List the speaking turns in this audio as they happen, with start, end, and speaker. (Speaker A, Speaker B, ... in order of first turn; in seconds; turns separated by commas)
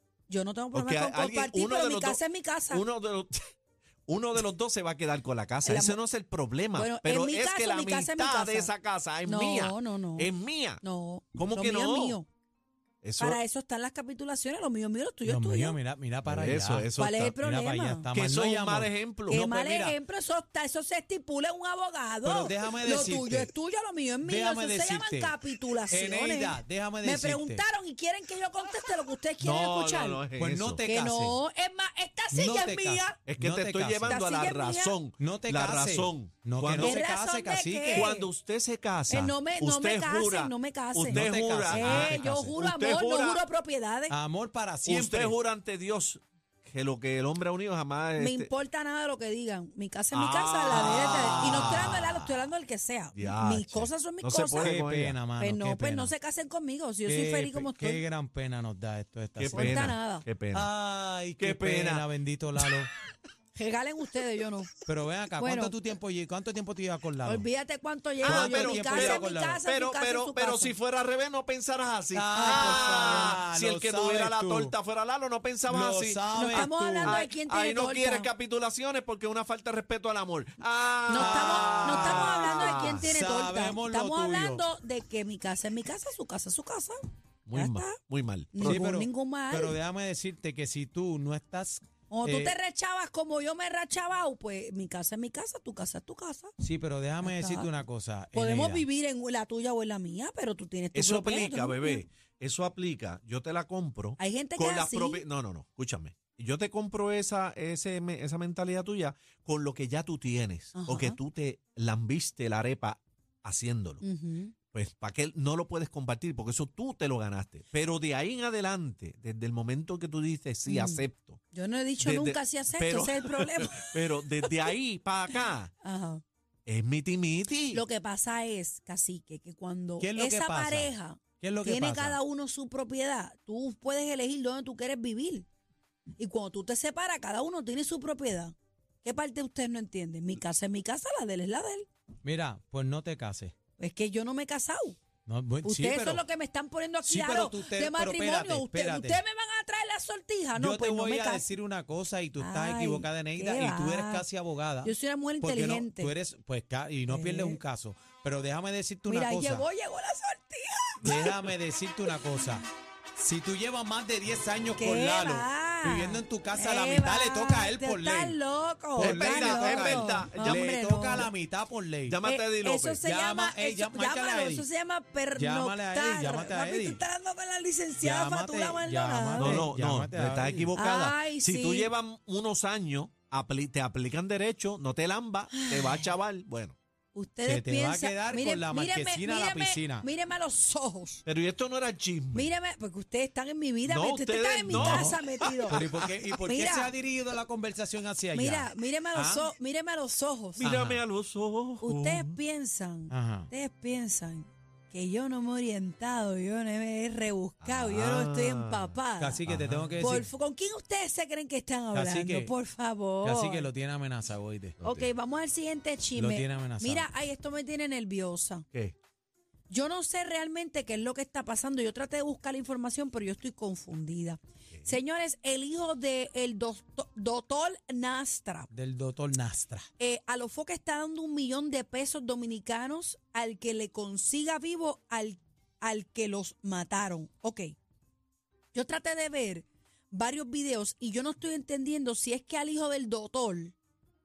Speaker A: 0.3-2.8, Speaker B: 0.7-2.2, Speaker B: 2.7-3.4, Speaker B: 4.1-10.8, Speaker A: 5.7-6.0, Speaker A: 6.8-8.7, Speaker A: 9.3-10.3, Speaker A: 10.8-12.3, Speaker B: 11.4-12.2, Speaker B: 13.0-13.4, Speaker A: 13.2-15.8, Speaker C: 15.2-16.9, Speaker B: 16.3-17.4, Speaker A: 17.0-18.1, Speaker C: 17.4-20.0, Speaker B: 18.1-19.4, Speaker A: 19.3-30.2, Speaker C: 22.2-23.5, Speaker C: 24.2-25.4, Speaker C: 25.9-27.6, Speaker B: 29.4-30.8, Speaker C: 30.4-31.4, Speaker A: 30.9-33.2, Speaker C: 32.3-34.2, Speaker B: 33.3-37.0, Speaker A: 34.1-35.0, Speaker C: 35.2-38.1, Speaker A: 36.8-38.3, Speaker B: 37.9-43.4, Speaker A: 39.1-41.1, Speaker C: 41.1-42.6, Speaker A: 41.7-44.1, Speaker C: 44.1-45.4, Speaker B: 44.9-48.5, Speaker A: 48.2-54.7, Speaker B: 50.1-51.9, Speaker C: 50.4-52.4, Speaker B: 53.1-55.2, Speaker C: 54.6-56.1, Speaker A: 55.4-58.0, Speaker C: 57.1-59.9, Speaker B: 59.4-60.7, Speaker A: 59.5-60.2, Speaker C: 60.5-62.9, Speaker B: 61.4-62.1, Speaker A: 63.5-64.7, Speaker C: 64.9-67.5, Speaker A: 65.4-65.7, Speaker A: 67.3-70.7, Speaker C: 68.2-69.6, Speaker B: 68.2-83.1, Speaker C: 72.1-74.8, Speaker A: 72.4-73.0, Speaker C: 75.7-77.2, Speaker A: 76.3-78.3, Speaker A: 81.1-87.0, Speaker C: 81.1-84.6, Speaker B: 87.5-88.8, Speaker A: 87.5-87.9, Speaker A: 88.5-89.8, Speaker C: 88.6-92.6, Speaker A: 92.1-96.5, Speaker C: 96.6-98.9, Speaker A: 97.3-97.7, Speaker A: 98.3-102.0, Speaker B: 101.0-114.0, Speaker A: 104.2-105.2, Speaker A: 110.8-111.1, Speaker A: 114.0-114.5, Speaker B: 114.7-121.4, Speaker A: 120.7-124.0, Speaker B: 122.0-125.7, Speaker A: 125.8-126.2, Speaker B: 126.7-127.8, Speaker A: 127.7-135.5, Speaker C: 130.0-132.2, Speaker A: 136.2-141.9, Speaker C: 142.2-143.5, Speaker A: 143.8-145.0, Speaker C: 145.3-146.2, Speaker A: 145.6-151.4, Speaker C: 147.0-149.2, Speaker C: 150.6-159.7, Speaker A: 152.4-154.2, Speaker A: 154.8-156.1, Speaker A: 157.1-157.6, Speaker A: 159.1-161.3, Speaker C: 161.0-168.4, Speaker A: 164.8-171.3, Speaker C: 169.0-172.2, Speaker B: 169.0-171.3, Speaker B: 172.1-173.0, Speaker A: 172.2-179.6, Speaker C: 173.0-174.7, Speaker C: 175.4-177.0, Speaker C: 178.0-180.8, Speaker B: 179.4-186.8, Speaker A: 180.8-181.9, Speaker A: 185.5-186.0, Speaker A: 187.1-191.2, Speaker C: 187.4-190.1, Speaker B: 191.3-192.5, Speaker A: 192.3-195.8, Speaker B: 193.8-196.2, Speaker C: 194.7-199.5, Speaker A: 196.5-196.9, Speaker A: 198.3-200.7, Speaker C: 200.6-201.0, Speaker B: 200.6-202.4, Speaker A: 201.8-209.4, Speaker C: 203.1-203.5, Speaker B: 207.6-208.9, Speaker C: 209.2-210.3, Speaker B: 209.5-210.2, Speaker A: 210.0-213.7, Speaker C: 211.9-212.5, Speaker C: 213.2-214.8, Speaker B: 214.8-215.1, Speaker A: 214.8-218.7, Speaker C: 216.2-217.1, Speaker A: 219.7-228.7, Speaker C: 228.7-229.9, Speaker A: 230.0-237.7, Speaker A: 238.7-243.7